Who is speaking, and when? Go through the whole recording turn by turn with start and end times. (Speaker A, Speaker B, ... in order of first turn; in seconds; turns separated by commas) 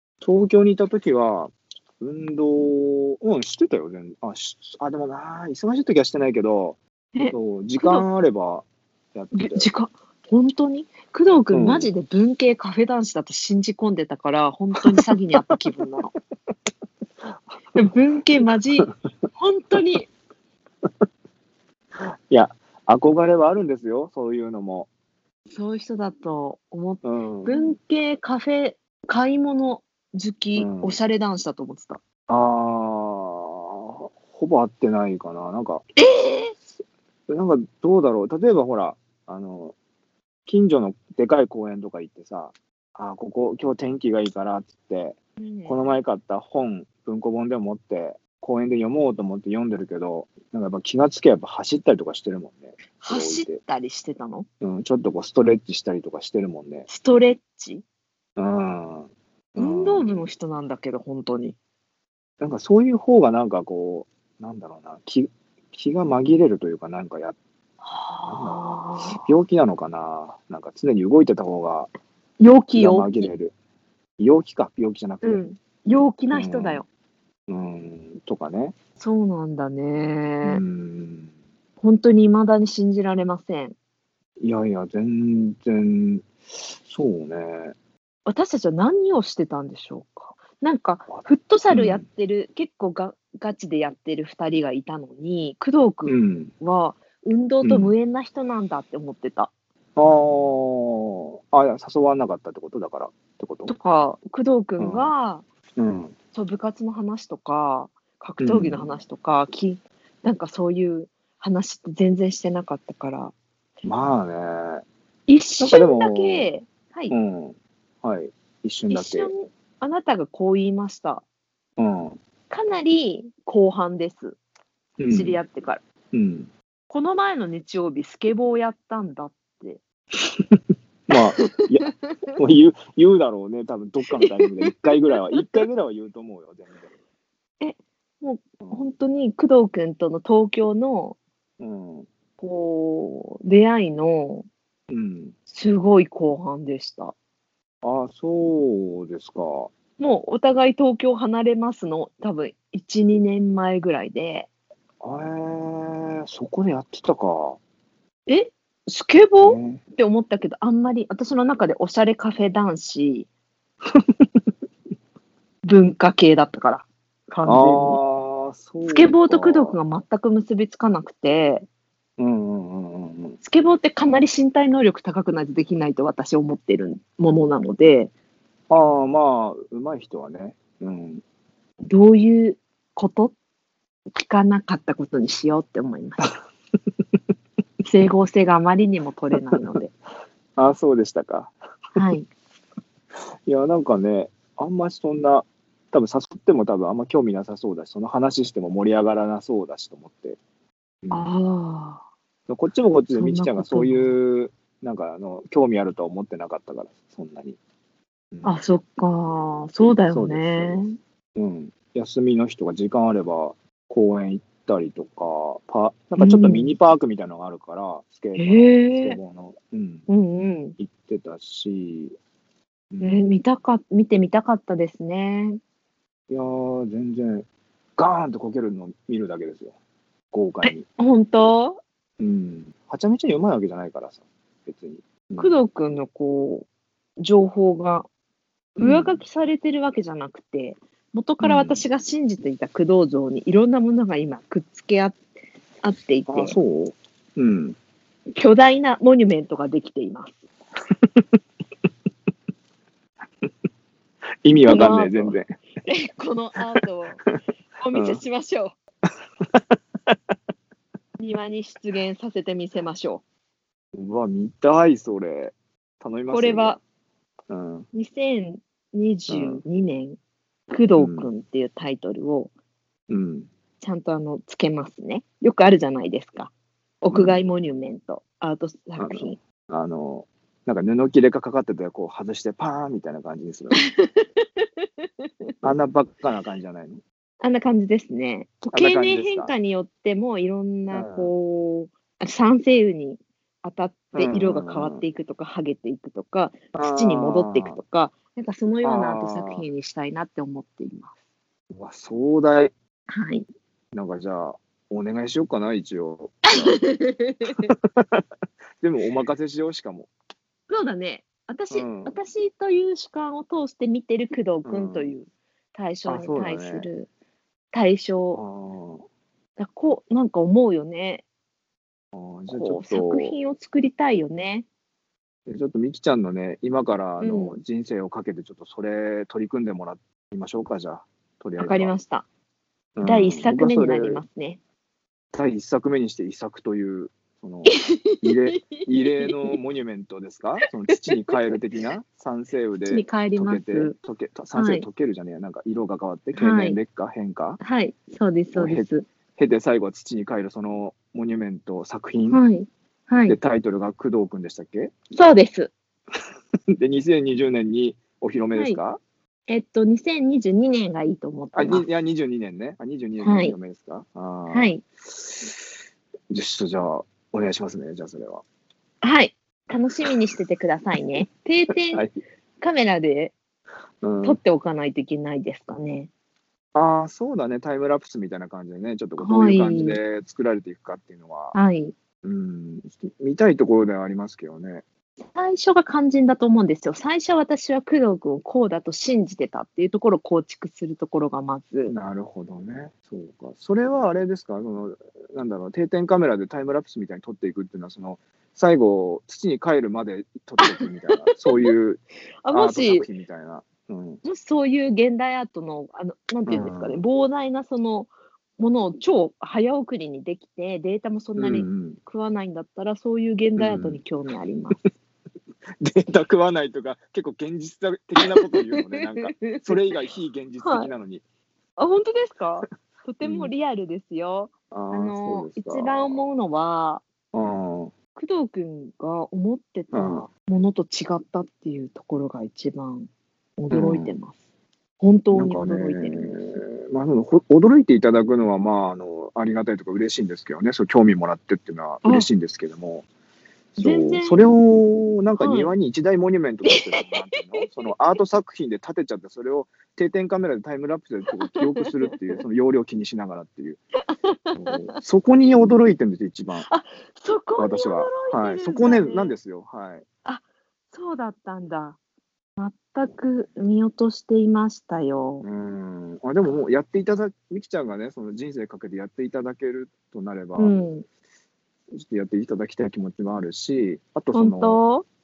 Speaker A: 0.2-9.7, Speaker B: 7.1-8.1, Speaker B: 9.3-16.1, Speaker A: 11.5-11.9, Speaker B: 17.7-20.1, Speaker A: 22.0-24.9, Speaker B: 25.5-32.0, Speaker A: 27.0-27.7, Speaker A: 30.6-31.0, Speaker A: 32.3-35.8, Speaker B: 36.0-36.5, Speaker A: 37.3-39.8, Speaker A: 40.5-53.6, Speaker B: 45.4-45.9, Speaker B: 53.0-54.5, Speaker A: 54.6-56.9, Speaker B: 56.9-57.8, Speaker A: 58.4-60.2, Speaker B: 59.6-61.6, Speaker A: 62.4-67.4, Speaker B: 67.8-69.3, Speaker A: 68.3-71.9, Speaker B: 72.4-73.3, Speaker A: 72.8-73.5, Speaker A: 74.2-75.5, Speaker B: 75.2-76.9, Speaker A: 76.3-76.8, Speaker A: 77.5-78.7, Speaker B: 79.0-80.6, Speaker A: 80.4-81.3, Speaker B: 81.8-83.8, Speaker A: 84.4-87.8, Speaker B: 88.3-99.5, Speaker A: 91.1-92.0, Speaker A: 96.1-96.5, Speaker A: 97.6-97.9, Speaker A: 100.0-103.7, Speaker B: 103.7-105.5, Speaker A: 104.8-105.1, Speaker A: 105.8-106.1, Speaker B: 106.3-113.3, Speaker A: 108.4-109.0, Speaker A: 113.8-114.8, Speaker B: 115.3-117.2, Speaker A: 115.6-116.5, Speaker A: 117.1-119.3, Speaker B: 118.9-121.2, Speaker A: 121.8-122.2, Speaker B: 122.5-124.4, Speaker A: 125.0-125.4, Speaker B: 125.1-125.8, Speaker A: 126.1-126.5, Speaker B: 126.9-129.8, Speaker A: 130.3-136.9, Speaker B: 131.2-132.3, Speaker B: 134.1-135.5, Speaker B: 137.6-141.2, Speaker A: 138.6-138.9, Speaker A: 141.6-142.1, Speaker B: 142.4-144.5, Speaker A: 144.9-145.3, Speaker B: 145.5-147.1, Speaker A: 147.8-149.7, Speaker B: 150.0-154.5, Speaker A: 155.0-157.6, Speaker B: 158.3-163.3, Speaker A: 159.4-159.8, Speaker B: 165.6-168.0, Speaker A: 167.4-169.8, Speaker B: 168.8-171.7, Speaker A: 172.2-173.4, Speaker B: 173.4-178.1, Speaker A: 178.7-181.2, Speaker B: 181.8-183.3, Speaker B: 184.2-186.3, Speaker B: 187.8-189.9, Speaker A: 189.4-189.6, Speaker A: 190.6-191.6, Speaker B: 192.0-192.3, Speaker A: 193.5-200.4, Speaker A: 201.0-201.3, Speaker B: 201.1-202.0, Speaker A: 202.5-207.6, Speaker B: 203.2-204.2, Speaker A: 208.3-208.6, Speaker B: 208.4-211.0, Speaker A: 209.8-210.8, Speaker A: 211.4-220.1, Speaker B: 216.2-216.7, Speaker B: 218.3-219.2, Speaker B: 220.1-220.8, Speaker A: 220.8-222.2, Speaker A: 222.9-223.2, Speaker B: 223.0-225.6, Speaker A: 226.3-227.5, Speaker A: 228.0-229.7, Speaker A: 230.3-230.8, Speaker B: 230.6-231.8, Speaker A: 232.2-235.6, Speaker B: 235.4-236.7, Speaker B: 237.2-238.1, Speaker B: 238.8-245.2, Speaker A: 238.8-239.2, Speaker A: 241.4-241.8, Speaker B: 245.8-246.6, Speaker A: 246.3-247.8, Speaker B: 248.4-250.3, Speaker A: 254.4-255.5, Speaker B: 254.6-257.2, Speaker A: 256.8-257.4, Speaker B: 257.8-258.8, Speaker A: 257.9-258.2, Speaker A: 259.5-260.2, Speaker B: 261.2-263.2, Speaker A: 263.9-266.8, Speaker B: 266.3-266.8, Speaker A: 267.5-267.9, Speaker B: 267.9-270.2, Speaker A: 269.3-269.6, Speaker B: 270.7-272.5, Speaker A: 271.0-271.3, Speaker A: 273.1-273.5, Speaker B: 273.8-279.4, Speaker A: 277.1-277.4, Speaker A: 279.0-283.8, Speaker B: 283.8-285.5, Speaker A: 285.6-287.0, Speaker B: 287.4-301.1, Speaker A: 288.7-289.5, Speaker A: 290.9-291.3, Speaker A: 294.1-295.0, Speaker A: 296.7-297.8, Speaker A: 298.8-299.7, Speaker A: 301.7-302.7, Speaker B: 303.1-303.4, Speaker A: 303.9-306.8, Speaker B: 306.5-307.7, Speaker A: 307.7-308.2, Speaker A: 308.8-310.1, Speaker B: 310.7-317.1, Speaker A: 311.7-312.2, Speaker A: 314.6-315.1, Speaker A: 316.1-316.9, Speaker B: 317.7-318.4, Speaker A: 318.3-319.0, Speaker B: 319.6-321.2, Speaker A: 322.1-323.4, Speaker B: 322.5-324.7, Speaker A: 325.5-331.9, Speaker B: 327.2-327.6, Speaker B: 331.6-332.3, Speaker A: 333.0-334.2, Speaker B: 333.0-334.6, Speaker A: 335.3-347.6, Speaker B: 337.7-339.6, Speaker B: 342.9-343.9, Speaker B: 344.6-344.9, Speaker B: 346.4-346.8, Speaker B: 347.6-349.1, Speaker A: 348.6-352.4, Speaker B: 352.3-353.4, Speaker A: 353.3-354.9, Speaker B: 355.1-355.7, Speaker A: 356.7-359.0, Speaker B: 358.5-358.8, Speaker B: 359.5-361.9, Speaker A: 361.5-365.6, Speaker B: 363.2-363.6, Speaker B: 364.5-364.8, Speaker A: 366.3-368.4, Speaker B: 369.0-372.1, Speaker B: 372.6-373.4, Speaker A: 374.0-374.4, Speaker B: 374.2-376.1, Speaker A: 376.8-381.6, Speaker B: 379.2-380.0, Speaker B: 381.5-381.9, Speaker A: 382.2-384.8, Speaker B: 385.3-391.9, Speaker A: 391.9-404.2, Speaker B: 400.6-401.7, Speaker B: 402.4-403.1, Speaker B: 404.2-414.8, Speaker A: 406.5-407.0, Speaker A: 411.4-412.0, Speaker A: 413.6-414.0, Speaker A: 415.8-421.2, Speaker B: 418.2-419.7, Speaker B: 420.6-420.9, Speaker B: 421.8-427.0, Speaker A: 423.2-423.5, Speaker A: 424.7-426.3, Speaker A: 427.3-427.9, Speaker B: 428.2-434.4, Speaker A: 429.9-430.3, Speaker A: 433.7-434.1, Speaker B: 435.0-436.4, Speaker A: 435.3-443.1, Speaker A: 443.7-453.8, Speaker B: 443.8-444.5, Speaker B: 445.4-445.7, Speaker B: 446.6-447.8, Speaker B: 451.6-452.4, Speaker B: 454.5-454.9, Speaker A: 454.6-456.7, Speaker B: 456.6-459.4, Speaker A: 457.6-460.1, Speaker B: 460.2-462.0, Speaker B: 462.6-465.4, Speaker A: 465.4-470.8, Speaker B: 470.6-471.1, Speaker A: 471.9-474.8, Speaker B: 474.3-475.1